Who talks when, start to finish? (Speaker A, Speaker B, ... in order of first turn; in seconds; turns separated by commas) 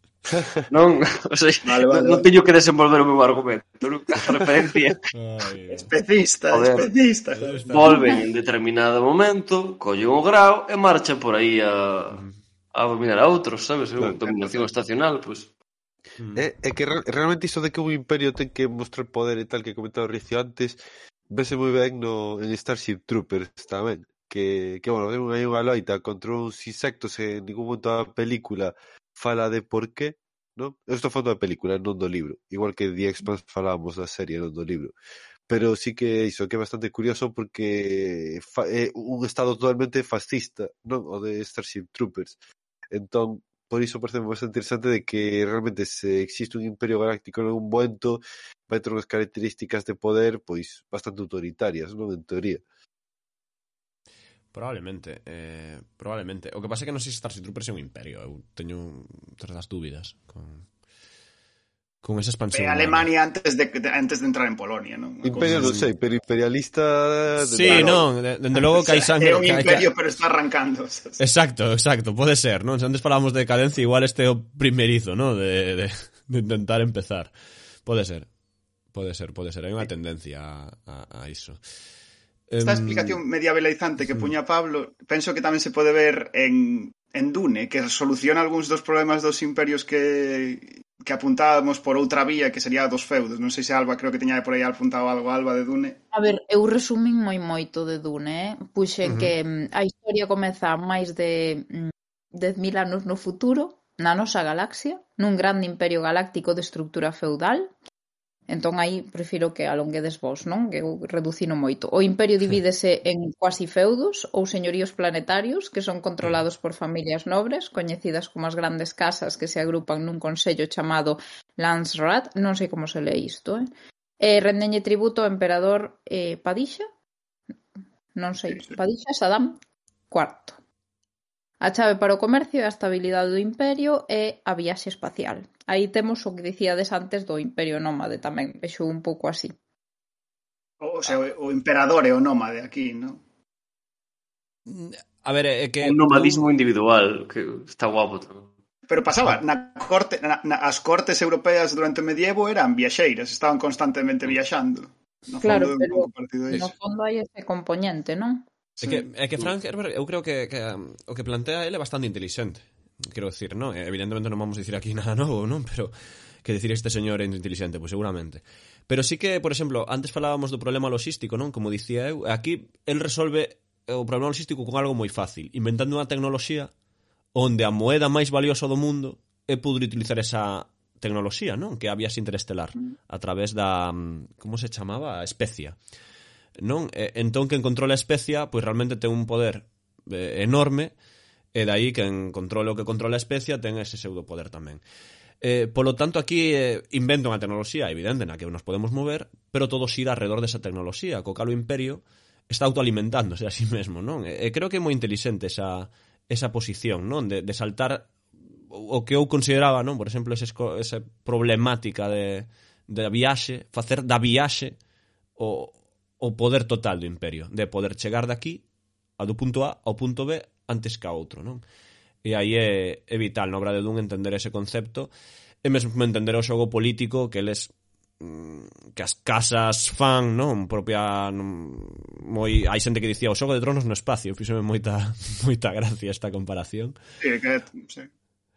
Speaker A: 0.7-5.0, Speaker B: 1.6-2.2, Speaker C: 5.1-5.9, Speaker B: 5.7-8.2, Speaker A: 6.5-6.9, Speaker C: 7.3-8.0, Speaker A: 7.7-12.2, Speaker C: 12.1-12.3, Speaker A: 12.7-15.5, Speaker D: 14.0-14.3, Speaker C: 16.2-16.5, Speaker D: 16.4-34.9, Speaker D: 35.5-42.4, Speaker D: 42.9-52.6, Speaker C: 54.5-60.6, Speaker C: 62.0-63.1, Speaker B: 62.5-65.8, Speaker D: 65.2-68.1, Speaker C: 65.4-65.9, Speaker C: 67.4-69.9, Speaker B: 67.6-71.2, Speaker C: 71.2-77.3, Speaker C: 77.8-78.3, Speaker C: 78.9-81.6, Speaker C: 82.5-83.2, Speaker B: 82.6-96.0, Speaker C: 84.1-84.3, Speaker E: 96.1-107.7, Speaker C: 99.0-99.3, Speaker E: 108.5-123.6, Speaker E: 124.2-126.8, Speaker E: 128.1-129.6, Speaker E: 130.1-130.6, Speaker E: 131.6-139.5, Speaker B: 140.8-143.2, Speaker C: 144.7-146.5, Speaker A: 145.8-148.5, Speaker B: 148.9-156.7, Speaker E: 155.4-158.4, Speaker B: 158.8-159.5, Speaker C: 158.8-176.7, Speaker C: 177.3-185.8, Speaker C: 186.6-190.9, Speaker C: 191.5-194.8, Speaker C: 195.4-208.1, Speaker C: 208.7-214.8, Speaker C: 215.3-218.6, Speaker C: 219.2-221.6, Speaker C: 222.2-225.1, Speaker C: 225.6-236.9, Speaker B: 237.2-238.1